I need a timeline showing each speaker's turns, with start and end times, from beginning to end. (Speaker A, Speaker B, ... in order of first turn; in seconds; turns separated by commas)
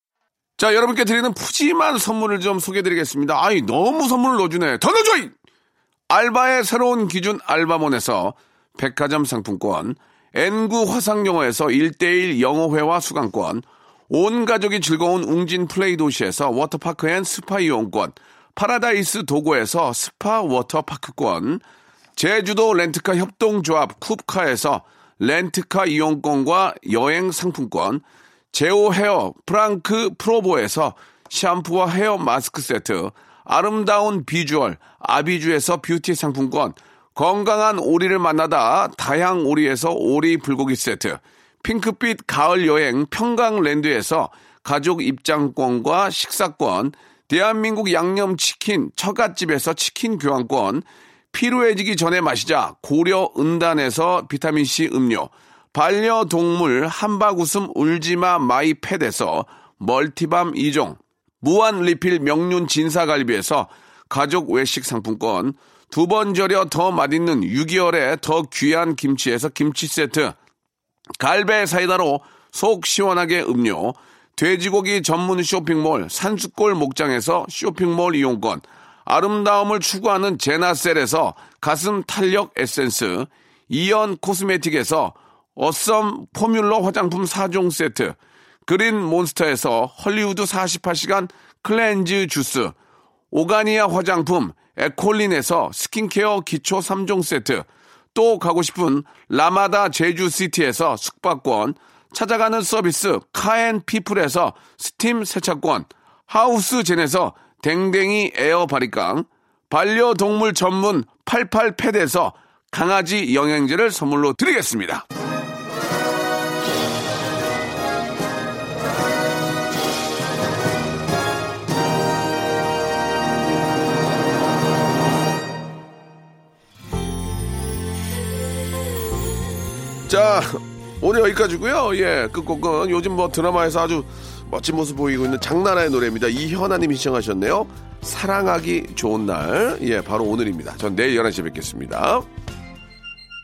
Speaker A: 0.6-5.3, Speaker A: 6.1-21.6, Speaker A: 22.2-70.4, Speaker A: 71.2-92.8, Speaker A: 93.3-115.0, Speaker A: 130.1-142.3